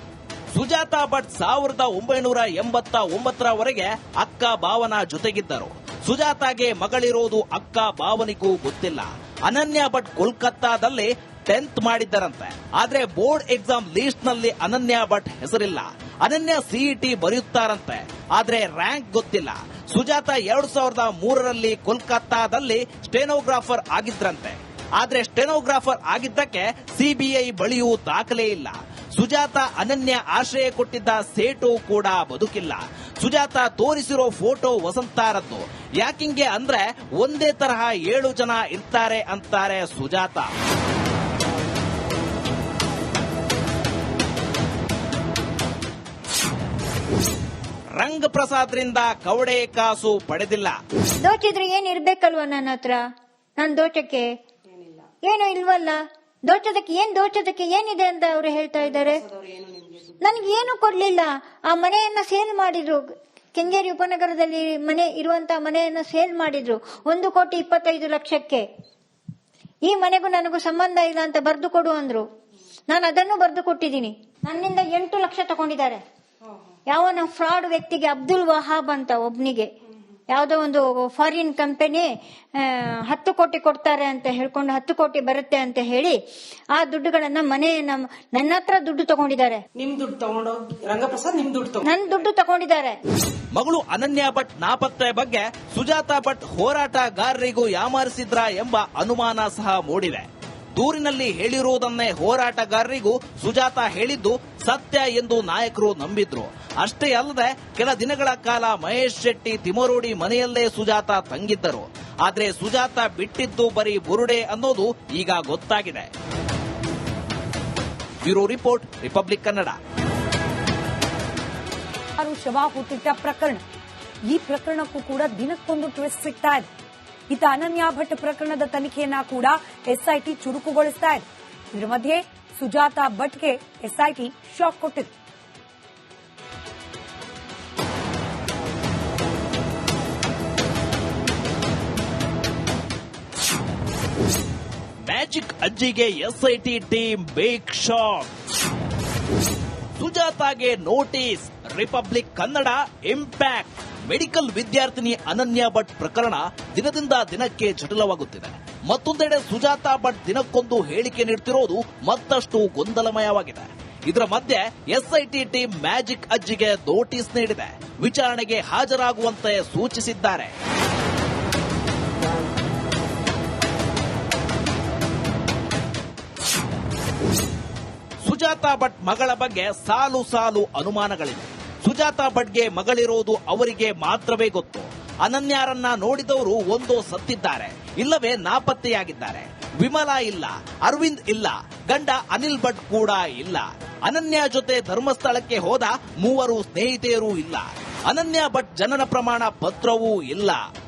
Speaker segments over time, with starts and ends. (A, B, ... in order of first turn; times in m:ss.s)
0:00.5-0:40.5 A
0:48.0-0:50.8 A
0:51.2-0:53.0 B
0:53.6-0:54.3 B
0:54.7-0:55.1 C
0:55.3-0:59.2 B
0:58.8-1:00.2 C
1:00.2-1:03.0 B
1:03.6-1:08.6 B
1:09.9-1:12.2 B
1:12.9-1:16.0 B
1:16.9-1:19.7 B
1:20.3-1:22.1 B
1:22.6-1:26.1 B
1:26.8-1:29.6 B
1:29.8-1:32.0 C
1:31.8-1:33.0 B
1:33.5-1:56.1 A
1:58.2-1:59.8 A
2:02.2-2:03.6 D
2:04.3-2:06.7 D
2:07.3-2:15.1 D
2:25.1-2:28.3 A
2:30.0-2:50.5 A
2:58.2-3:20.6 A